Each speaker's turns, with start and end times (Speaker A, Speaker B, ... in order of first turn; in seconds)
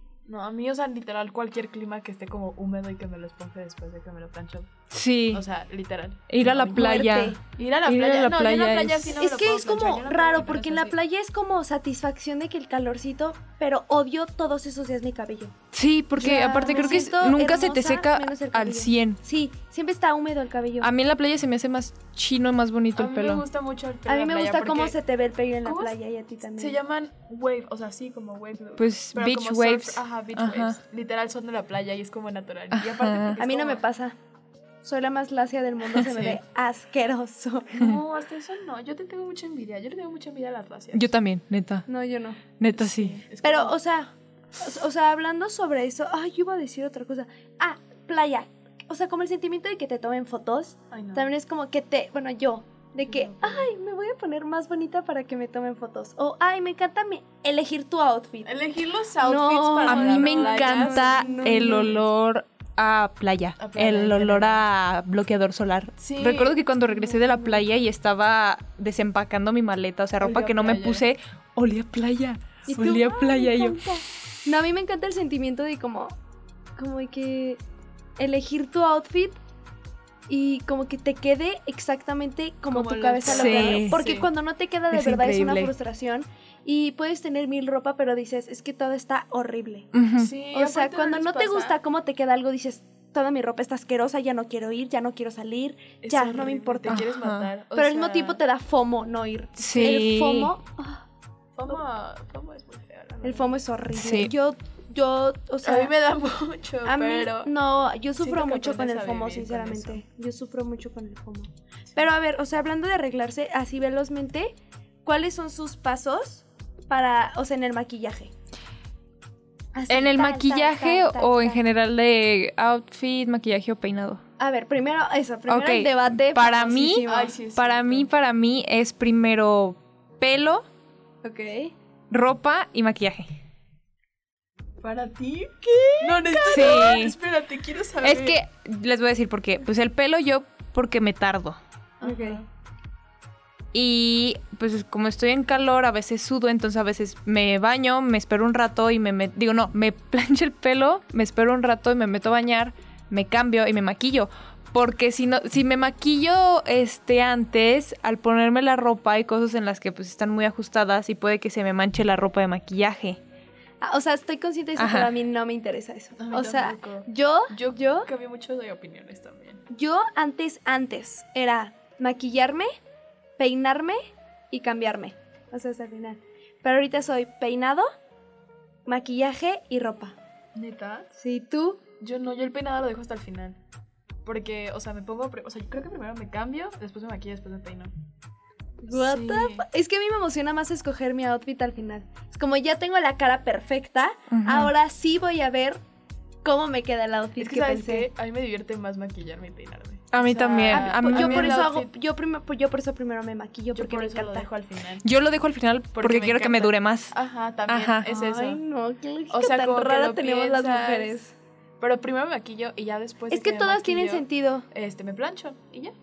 Speaker A: 0.2-4.7, 5.3-7.0, 7.5-10.9, 16.3-17.0, 22.9-24.9, 25.6-33.8, 36.0-36.4, 37.7-41.1, 42.7-43.7, 50.9-51.2, 53.0-53.7, 58.4-62.0, 63.6-64.6, 66.0-66.7, 70.2-71.1, 82.7-84.3, 90.2-91.7, 96.0-98.4, 101.5-103.6, 105.6-107.5, 108.2-110.0, 127.0-128.1, 134.8-138.4, 142.0-142.4, 166.2-169.6, 180.5-181.1, 182.0-183.6, 184.2-187.9, 188.9-189.6, 197.4-201.9, 203.7-205.1, 205.9-208.6, 209.3-211.2, 211.8-215.9
Speaker B: 4.9-5.4, 6.3-9.2, 15.7-19.2, 20.8-23.4, 28.8-30.8, 32.7-33.4, 40.9-41.9, 42.6-43.2, 59.9-73.9, 83.2-84.0, 84.9-85.7, 89.9-90.3, 96.9-97.5, 99.6-100.5, 104.0-104.3, 119.9-124.2, 125.5-130.7, 132.1-133.3, 136.5-137.2, 138.0-141.6, 143.7-163.2, 164.8-165.1, 194.3-194.7, 200.1-201.6, 205.0-207.1, 207.7-208.1
Speaker C: 6.4-7.4, 9.2-15.5, 16.1-20.9, 24.1-26.8, 33.4-34.1, 34.8-37.9, 41.9-42.4, 43.4-58.5, 59.2-62.0, 66.9-67.5, 72.7-76.1, 76.8-77.6, 78.2-79.4, 80.3-89.9, 90.5-97.0, 97.7-101.0, 103.2-105.9, 106.8-118.3, 119.7-121.6, 124.4-127.4, 131.2-131.7, 135.6-136.9, 142.0-142.4, 163.8-168.1, 169.7-172.7, 173.4-174.0, 174.5-177.9, 178.8-180.2, 181.2-181.8, 188.8-195.8, 196.4-198.1, 200.7-204.5, 208.1-211.3, 213.3-214.7